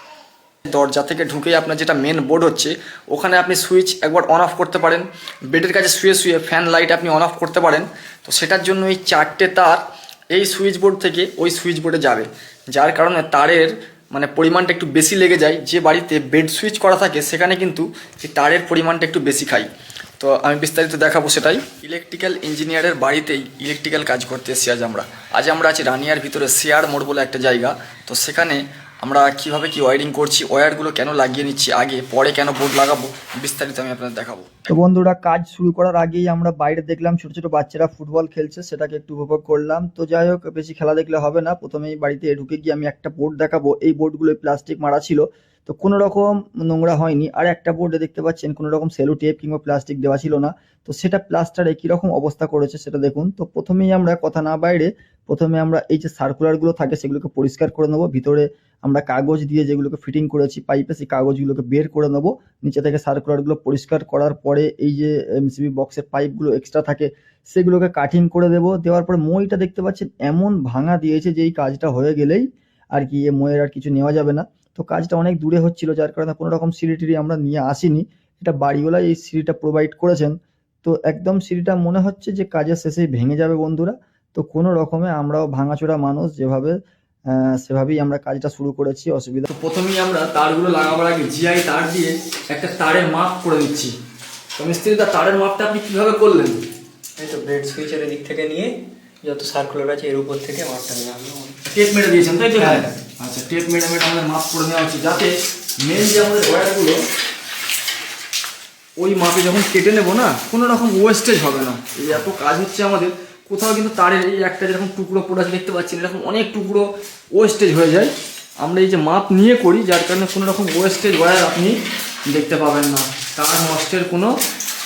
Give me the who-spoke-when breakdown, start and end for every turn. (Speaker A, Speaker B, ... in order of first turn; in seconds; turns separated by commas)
Speaker A: 0.6-34.7, Speaker B: 34.7-45.2, Speaker A: 42.5-43.1, Speaker A: 45.7-58.2, Speaker B: 47.4-72.4, Speaker A: 58.9-60.3, Speaker A: 62.8-63.8, Speaker A: 65.9-66.8, Speaker A: 67.6-68.4, Speaker A: 69.1-70.6, Speaker B: 73.0-80.3, Speaker A: 74.2-77.2, Speaker A: 77.8-79.2, Speaker B: 80.8-86.7, Speaker B: 87.4-89.5, Speaker A: 89.5-93.9, Speaker A: 94.6-96.6, Speaker C: 97.2-101.6, Speaker A: 101.7-107.0, Speaker A: 109.0-124.4